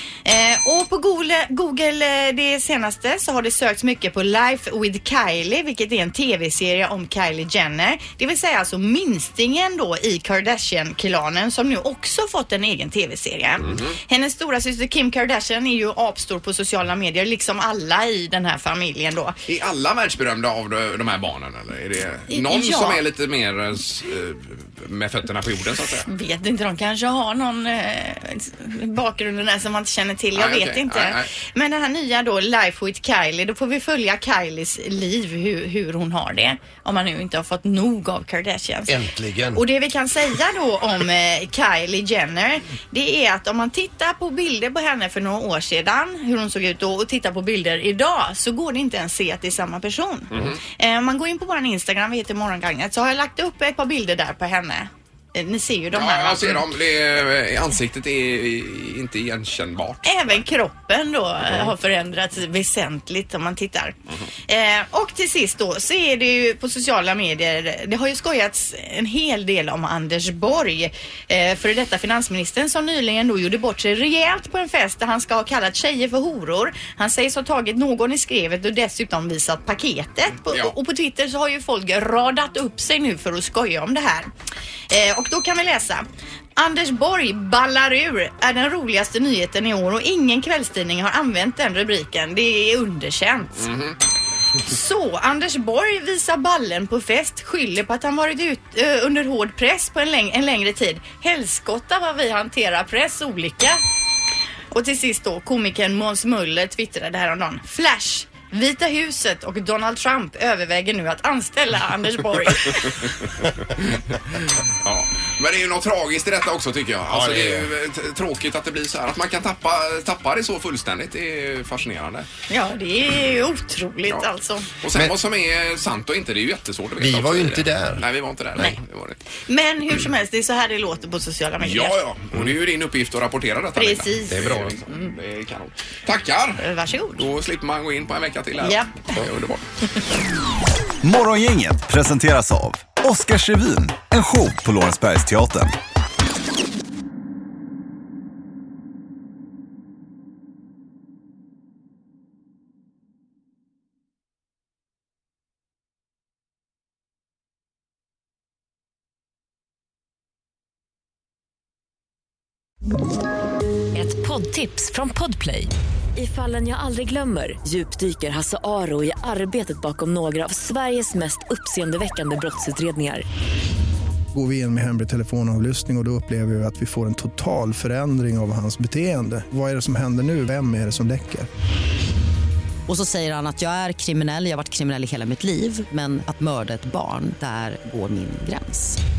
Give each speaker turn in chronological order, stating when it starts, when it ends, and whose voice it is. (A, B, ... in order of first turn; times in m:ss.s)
0:00.2-0:19.4 A
0:13.6-0:14.0 B
0:19.5-0:26.1 B
0:22.3-0:23.0 A
0:26.1-0:38.9 A
0:30.3-0:31.3 B
0:38.9-0:39.6 C
0:39.5-0:56.6 A
0:50.3-0:50.6 B
0:55.9-1:00.4 B
1:00.0-1:03.9 A
1:04.5-1:24.3 A
1:24.9-1:26.0 A
1:26.6-1:33.7 A
1:33.6-1:34.0 B
1:34.6-1:43.8 A
1:44.7-1:53.0 A
1:52.7-1:54.0 B
1:54.8-2:02.3 B
1:57.0-1:57.7 C
2:02.5-2:04.7 A
2:04.8-2:09.2 B
2:07.0-2:08.0 C
2:09.5-2:12.0 A
2:11.6-2:16.6 B
2:13.8-2:15.1 A
2:14.3-2:14.7 C
2:16.6-2:17.2 A
2:17.2-2:19.6 B
2:18.6-2:19.2 A
2:21.0-2:25.7 D
2:43.9-2:53.2 E
2:54.3-3:01.5 F
3:02.9-3:09.0 G